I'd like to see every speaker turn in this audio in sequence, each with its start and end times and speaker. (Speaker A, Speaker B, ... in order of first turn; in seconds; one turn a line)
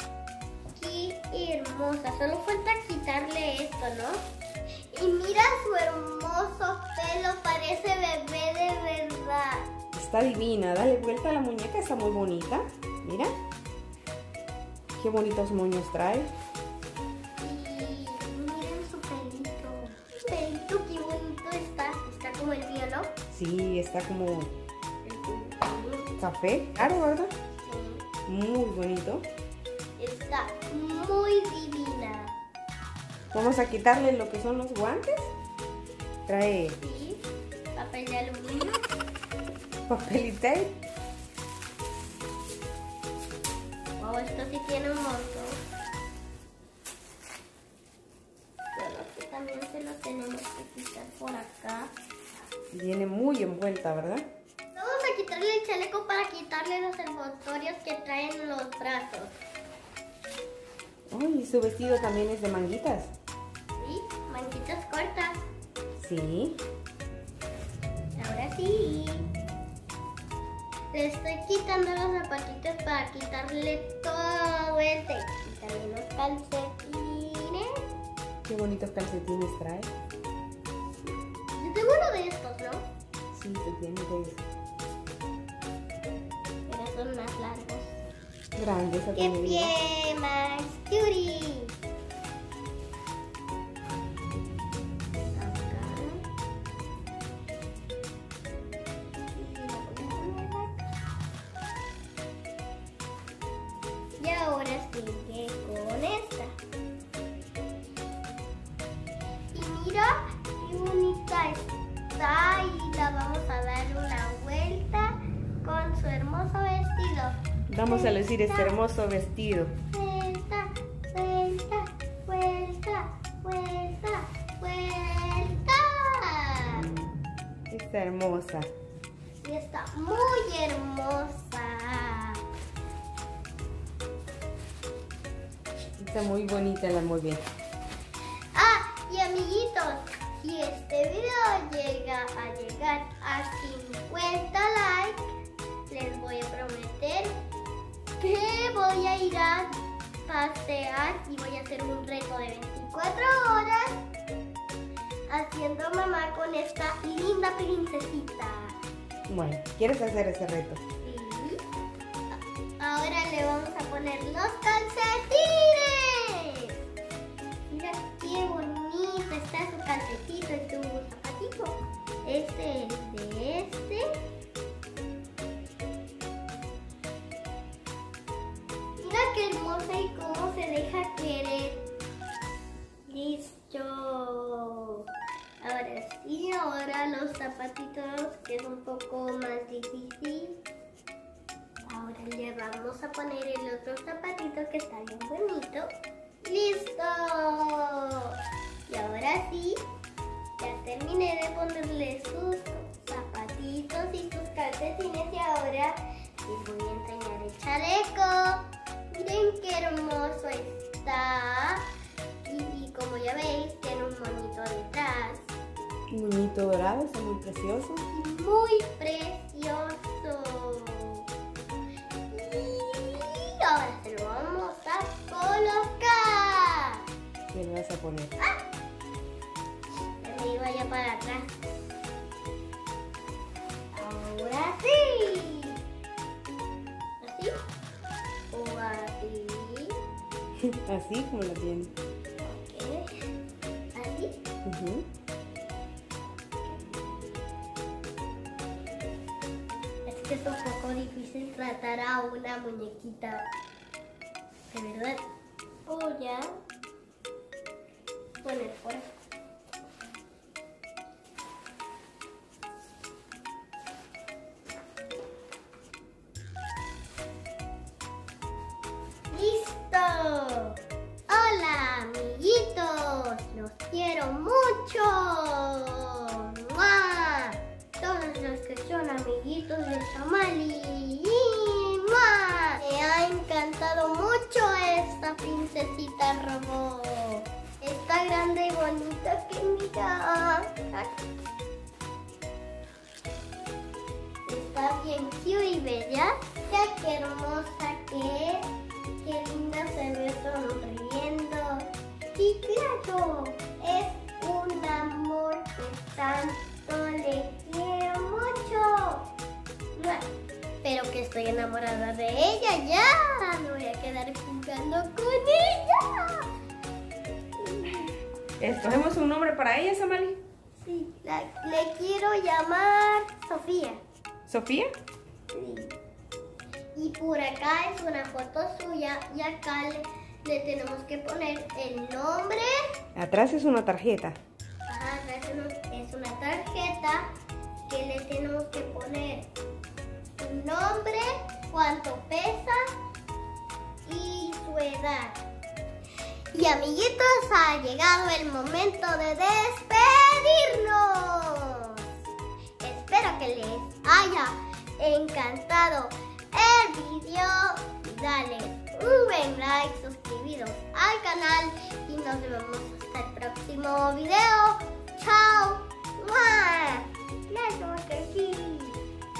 Speaker A: 0.7-4.2
Speaker A: 4.9-9.7
Speaker B: 9.9-13.3
Speaker B: 14.9-16.3
Speaker A: 17.4-23.1
Speaker B: 23.3-24.5
Speaker A: 25.0-26.1
Speaker B: 26.2-27.3
Speaker A: 27.6-28.0
Speaker B: 28.3-29.2
Speaker A: 30.0-32.3
Speaker B: 33.3-35.3
Speaker B: 36.3-36.8
Speaker A: 36.8-38.9
Speaker B: 39.9-40.8
Speaker A: 44.0-45.6
Speaker A: 48.7-51.9
Speaker B: 52.7-54.2
Speaker A: 54.7-59.4
Speaker B: 61.1-63.1
Speaker A: 63.8-65.4
Speaker B: 66.0-66.6
Speaker A: 68.2-69.3
Speaker A: 70.9-77.8
Speaker B: 78.4-79.9
Speaker A: 81.5-82.8
Speaker B: 83.3-84.4
Speaker A: 86.7-88.0
Speaker B: 88.5-89.7
Speaker A: 89.2-91.7
Speaker A: 95.3-96.2
Speaker A: 99.3-100.8
Speaker A: 104.2-106.5
Speaker A: 109.5-117.3
Speaker B: 117.7-119.8
Speaker A: 117.8-118.8
Speaker A: 119.9-126.9
Speaker B: 127.7-128.7
Speaker A: 129.4-132.4
Speaker B: 136.0-137.4
Speaker A: 138.5-145.3
Speaker A: 145.9-147.3
Speaker A: 148.2-154.0
Speaker A: 155.3-158.8
Speaker B: 159.3-160.8
Speaker A: 161.0-161.6
Speaker A: 162.3-166.7
Speaker A: 167.7-174.0
Speaker A: 179.0-181.8
Speaker A: 183.1-185.0
Speaker A: 185.6-190.6
Speaker A: 191.8-195.9
Speaker A: 196.4-198.3
Speaker A: 198.9-199.8
Speaker A: 200.6-211.8
Speaker A: 212.4-215.6
Speaker B: 216.1-218.1
Speaker A: 218.1-221.2
Speaker A: 222.3-227.0
Speaker B: 227.5-228.3
Speaker A: 230.2-231.5
Speaker A: 233.9-235.8
Speaker A: 237.2-237.5
Speaker A: 238.5-239.9
Speaker B: 240.6-241.9
Speaker A: 242.4-243.3
Speaker A: 243.9-244.3
Speaker B: 244.6-245.1
Speaker A: 250.1-253.4
Speaker A: 254.7-255.2
Speaker A: 255.9-256.5
Speaker A: 258.4-259.1
Speaker A: 269.3-270.8
Speaker A: 271.3-291.2
Speaker A: 294.4-298.7
Speaker A: 299.2-309.2
Speaker A: 309.9-310.3
Speaker A: 310.8-316.5
Speaker A: 317.6-318.1
Speaker B: 318.6-320.4
Speaker A: 320.8-324.0
Speaker B: 324.5-324.9
Speaker A: 325.5-325.9
Speaker A: 326.9-332.9
Speaker B: 333.1-334.4
Speaker A: 334.9-337.3
Speaker A: 337.9-339.5
Speaker A: 340.4-342.8
Speaker A: 344.0-345.4
Speaker A: 346.5-352.1
Speaker A: 352.8-369.0